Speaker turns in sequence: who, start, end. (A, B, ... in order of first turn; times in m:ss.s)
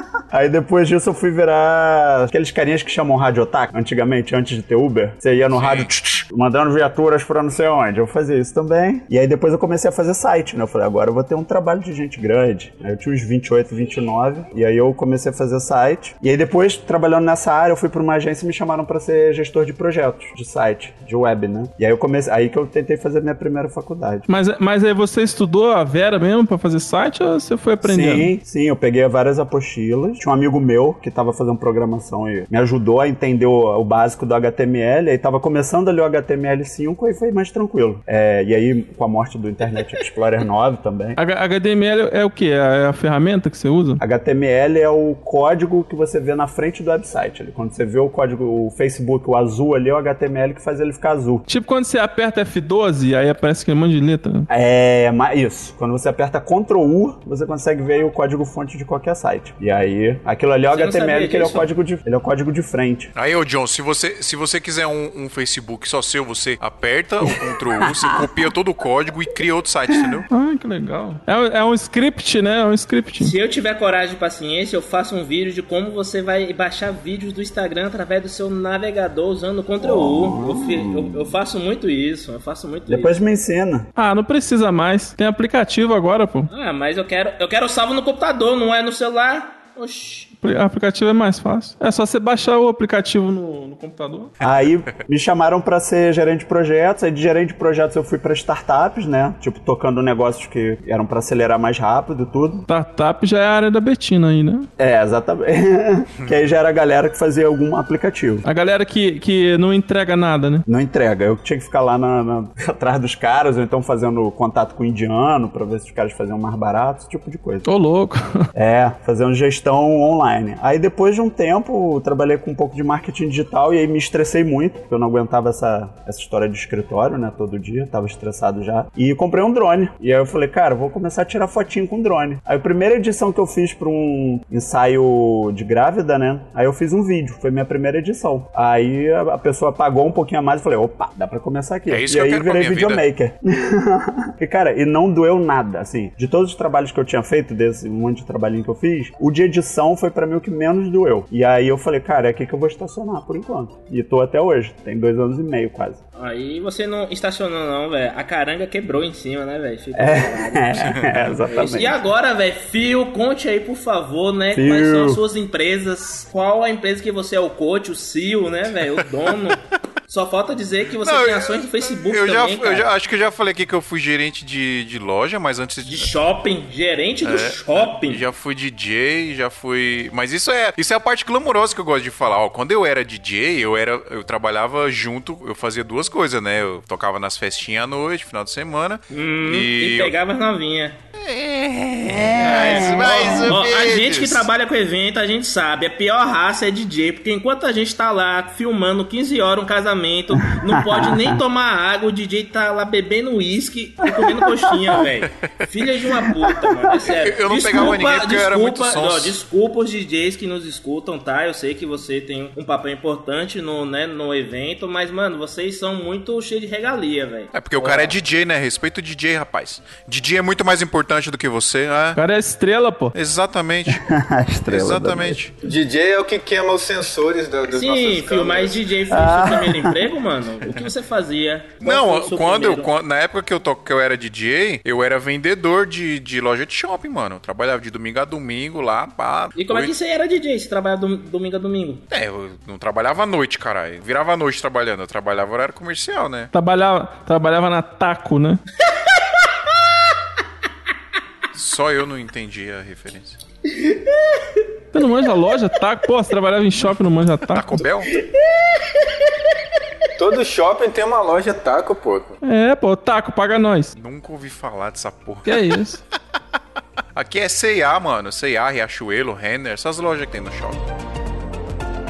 0:00.3-0:24.3 A
0:05.5-0:05.9 B
0:24.3-0:28.3 C
0:27.8-0:41.2 A
0:41.2-0:44.0 C
0:44.0-0:51.4 A
0:51.5-0:54.5 C
0:54.5-1:03.1 A
1:00.7-1:01.7 D
1:03.1-1:10.3 B
1:07.2-1:08.3 A
1:10.3-1:13.3 C
1:13.2-1:23.2 D
1:19.8-1:21.4 A
1:22.9-1:23.9 A
1:24.0-1:26.5 C
1:26.5-1:30.3 D
1:30.4-1:34.3 C
1:34.4-1:42.7 A
1:34.4-1:34.7 B
1:42.7-1:44.7 C
1:44.8-1:48.4 A
1:48.4-1:50.6 C
1:50.7-1:57.7 A
1:57.6-1:58.4 C
1:58.5-2:36.0 A
2:21.9-2:23.0 B
2:36.2-2:52.9 D
2:39.9-2:42.0 A
2:40.8-2:41.1 B
2:44.5-2:45.2 A
2:51.0-2:56.1 B
2:55.8-2:58.2 D
2:57.2-3:10.1 B
3:09.1-3:11.0 D
3:11.2-3:14.5 B
3:12.1-3:13.6 A
3:12.4-3:38.1 D
3:20.5-3:21.4 A
3:24.0-3:24.9 A
3:26.2-3:27.0 A
3:27.1-3:29.4 B
3:37.5-3:42.2 B
3:42.2-3:43.1 C
3:43.1-3:44.0 B
3:43.9-3:45.4 A
3:44.7-3:45.5 B
3:45.6-3:48.8 E
3:47.7-3:52.9 D
3:49.1-3:50.1 A
3:51.8-3:59.9 B
3:59.6-4:02.0 D
4:02.1-4:06.5 B
4:06.5-4:08.6 C
4:11.5-4:13.4 B
4:14.9-4:17.8 C
4:17.5-4:18.1 B
4:20.2-4:22.4 E
4:22.4-4:23.9 C
4:23.9-4:25.7 B
4:25.4-4:26.0 C
4:27.2-4:30.8 B